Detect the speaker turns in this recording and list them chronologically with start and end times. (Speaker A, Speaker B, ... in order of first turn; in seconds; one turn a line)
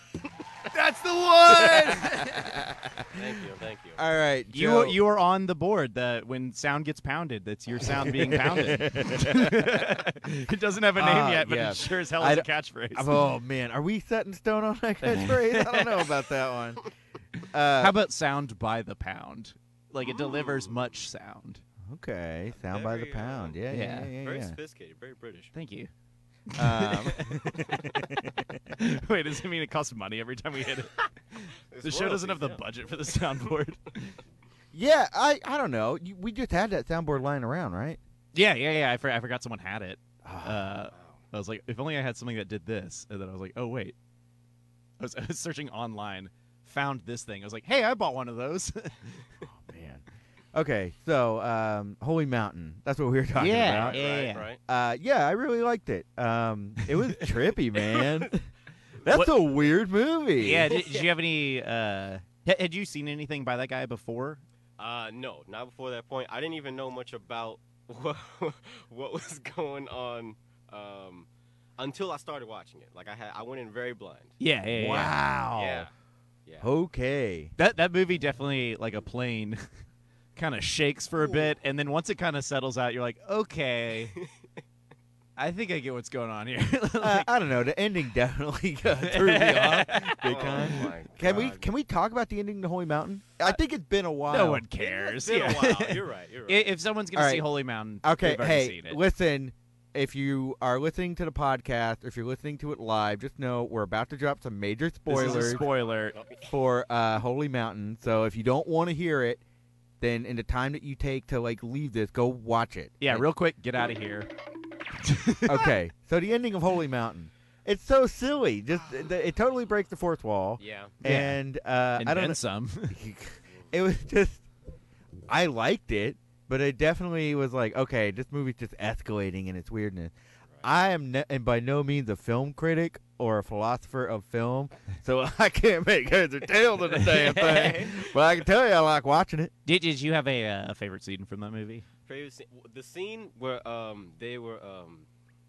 Speaker A: 0.7-2.5
Speaker B: 1.5-3.1
Speaker C: 3.1-4.0
Speaker B: 4.0-5.0
Speaker A: 4.5-13.1
Speaker B: 8.0-9.9
Speaker B: 11.0-16.8
Speaker A: 15.0-16.0
Speaker B: 17.5-17.9
Speaker A: 17.8-21.6
Speaker B: 21.9-24.6
Speaker C: 22.6-25.5
Speaker A: 23.7-24.1
Speaker A: 25.5-25.9
Speaker A: 26.5-27.9
Speaker B: 26.6-28.5
Speaker A: 28.7-34.2
Speaker C: 31.7-32.6
Speaker B: 34.7-38.0
Speaker A: 38.3-44.0
Speaker B: 40.2-40.6
Speaker A: 45.0-49.3
Speaker B: 49.5-50.0
Speaker B: 50.5-54.1
Speaker A: 53.4-54.5
Speaker C: 53.6-54.6
Speaker B: 54.7-58.5
Speaker B: 59.0-60.7
Speaker A: 59.1-59.3
Speaker A: 60.4-64.4
Speaker C: 60.7-61.1
Speaker C: 64.8-74.3
Speaker A: 74.4-75.2
Speaker B: 74.7-75.9
Speaker C: 75.5-75.9
Speaker B: 76.6-77.5
Speaker A: 77.6-79.6
Speaker A: 80.4-84.2
Speaker A: 85.4-87.3
Speaker B: 87.0-94.6
Speaker A: 89.0-90.7
Speaker C: 90.2-91.6
Speaker A: 94.3-99.0
Speaker C: 94.8-96.7
Speaker B: 97.1-97.5
Speaker B: 98.0-105.6
Speaker A: 105.1-106.2
Speaker C: 105.1-106.5
Speaker B: 106.5-109.4
Speaker B: 110.0-113.2
Speaker A: 113.0-114.3
Speaker A: 115.0-115.7
Speaker B: 115.5-124.4
Speaker C: 120.6-120.9
Speaker A: 121.0-121.4
Speaker A: 122.0-123.0
Speaker B: 125.3-139.5
Speaker A: 137.0-137.7
Speaker C: 137.1-137.9
Speaker A: 139.6-141.9
Speaker C: 142.1-145.1